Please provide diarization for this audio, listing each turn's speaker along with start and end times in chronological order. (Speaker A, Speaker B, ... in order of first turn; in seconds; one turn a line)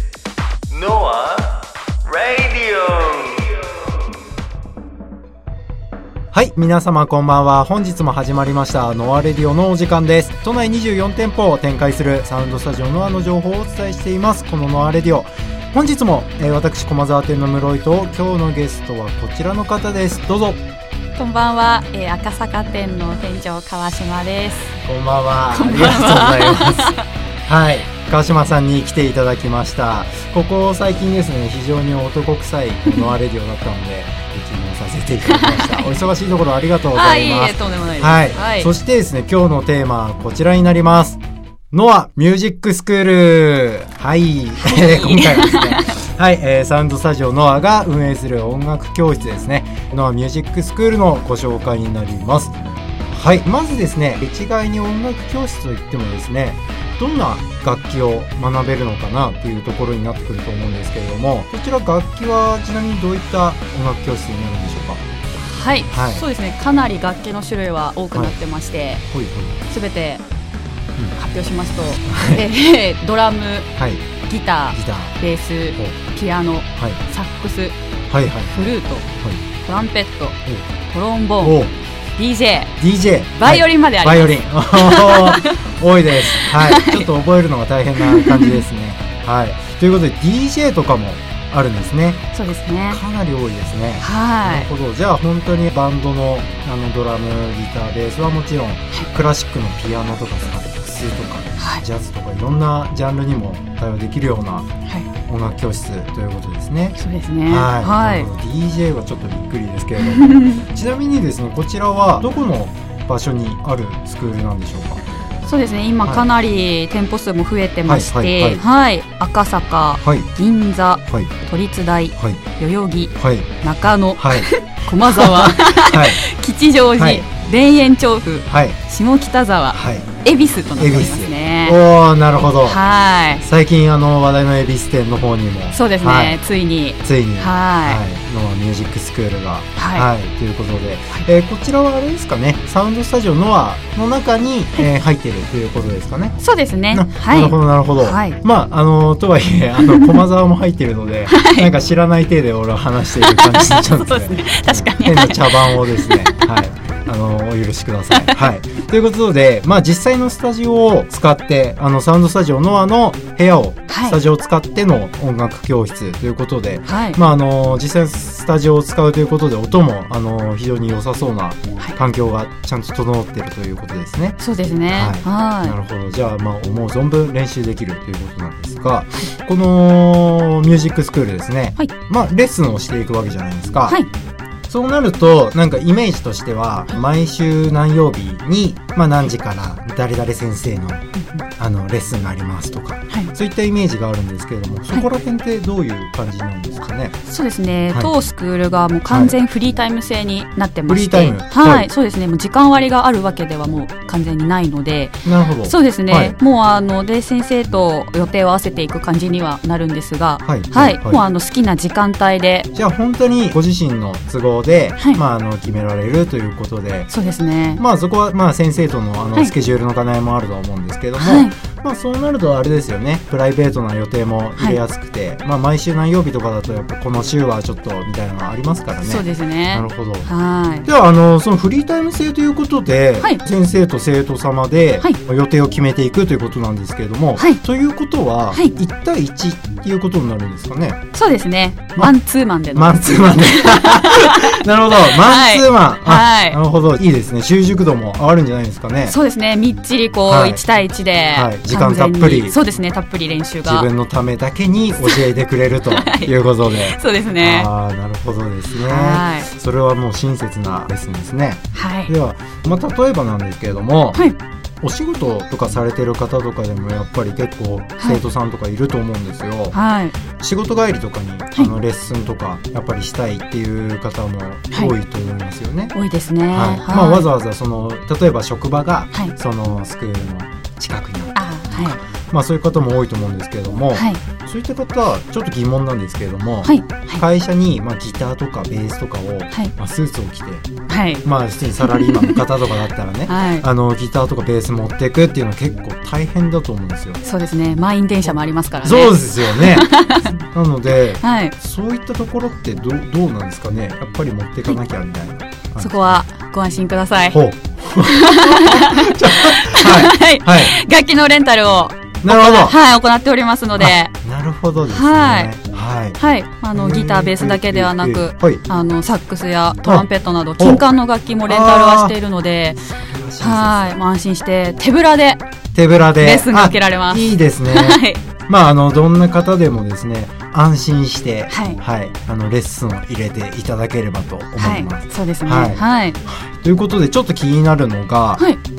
Speaker A: 0.7-3.5
Speaker B: 6.3-20.6
Speaker C: 21.2-24.8
Speaker B: 24.8-26.9
Speaker C: 25.5-27.1
Speaker B: 27.5-41.2
Speaker C: 35.2-36.0
Speaker C: 36.9-38.7
Speaker B: 41.7-52.5
Speaker C: 44.6-46.0
Speaker B: 53.1-65.0
Speaker C: 65.4-69.0
Speaker B: 65.9-66.2
Speaker B: 69.1-69.6
Speaker C: 69.7-70.2
Speaker C: 71.2-73.7
Speaker B: 72.1-72.4
Speaker B: 73.8-74.1
Speaker C: 74.2-77.8
Speaker B: 74.7-75.2
Speaker B: 78.1-79.4
Speaker C: 78.5-79.1
Speaker C: 79.6-81.6
Speaker B: 81.4-81.7
Speaker C: 82.2-82.7
Speaker B: 82.8-92.3
Speaker C: 83.4-85.6
Speaker C: 86.2-87.1
Speaker C: 88.0-88.6
Speaker C: 92.3-93.0
Speaker B: 92.9-104.7
Speaker C: 94.0-94.7
Speaker C: 101.6-101.8
Speaker B: 105.3-115.0
Speaker C: 107.0-108.3
Speaker C: 110.0-110.6
Speaker C: 115.4-131.8
Speaker B: 117.9-118.6
Speaker B: 120.0-120.3
Speaker B: 121.1-121.3
Speaker B: 123.2-124.5
Speaker B: 125.0-126.2
Speaker B: 127.0-127.2
Speaker B: 128.5-128.8
Speaker B: 129.7-130.1
Speaker B: 130.8-132.8
Speaker C: 132.4-133.4
Speaker B: 133.4-136.4
Speaker C: 135.7-138.0
Speaker B: 137.0-146.4
Speaker C: 139.8-140.1
Speaker C: 146.4-148.4
Speaker B: 146.9-174.4
Speaker C: 149.8-150.2
Speaker C: 151.3-151.7
Speaker C: 153.2-156.3
Speaker C: 158.1-158.4
Speaker C: 163.9-164.2
Speaker C: 166.8-167.2
Speaker C: 174.4-175.8
Speaker B: 174.9-184.0
Speaker B: 184.7-191.0
Speaker C: 191.2-191.4
Speaker B: 191.6-197.2
Speaker C: 197.2-212.7
Speaker B: 199.1-199.3
Speaker B: 200.9-201.9
Speaker B: 205.2-206.3
Speaker B: 210.4-211.2
Speaker B: 212.8-217.1
Speaker C: 217.1-217.8
Speaker B: 217.8-230.3
Speaker C: 221.2-221.5
Speaker C: 229.0-230.9
Speaker B: 230.8-241.0
Speaker C: 237.4-237.6
Speaker C: 241.1-246.6
Speaker B: 242.8-249.2
Speaker C: 249.1-253.9
Speaker B: 250.3-250.6
Speaker B: 251.3-252.6
Speaker B: 253.7-264.3
Speaker C: 255.9-257.7
Speaker C: 258.7-259.5
Speaker C: 261.7-262.1
Speaker B: 264.8-269.8
Speaker C: 269.7-270.1
Speaker B: 270.4-275.9
Speaker C: 275.9-277.3
Speaker B: 276.5-290.7
Speaker C: 281.4-282.0
Speaker C: 283.9-284.2
Speaker C: 286.6-287.2
Speaker C: 290.9-291.2
Speaker B: 291.2-297.2
Speaker C: 291.8-292.4
Speaker C: 293.3-293.6
Speaker C: 297.2-300.4
Speaker B: 298.8-306.2
Speaker C: 301.2-301.5
Speaker C: 305.8-307.4
Speaker B: 307.3-310.8
Speaker C: 308.0-314.1
Speaker B: 312.2-312.8
Speaker B: 313.8-316.2
Speaker C: 314.9-315.5
Speaker C: 316.2-322.8
Speaker B: 316.7-318.6
Speaker B: 320.6-320.9
Speaker B: 321.5-322.1
Speaker B: 323.0-324.0
Speaker C: 323.4-325.4
Speaker B: 325.7-338.5
Speaker C: 326.2-328.2
Speaker C: 331.5-331.8
Speaker C: 334.6-336.2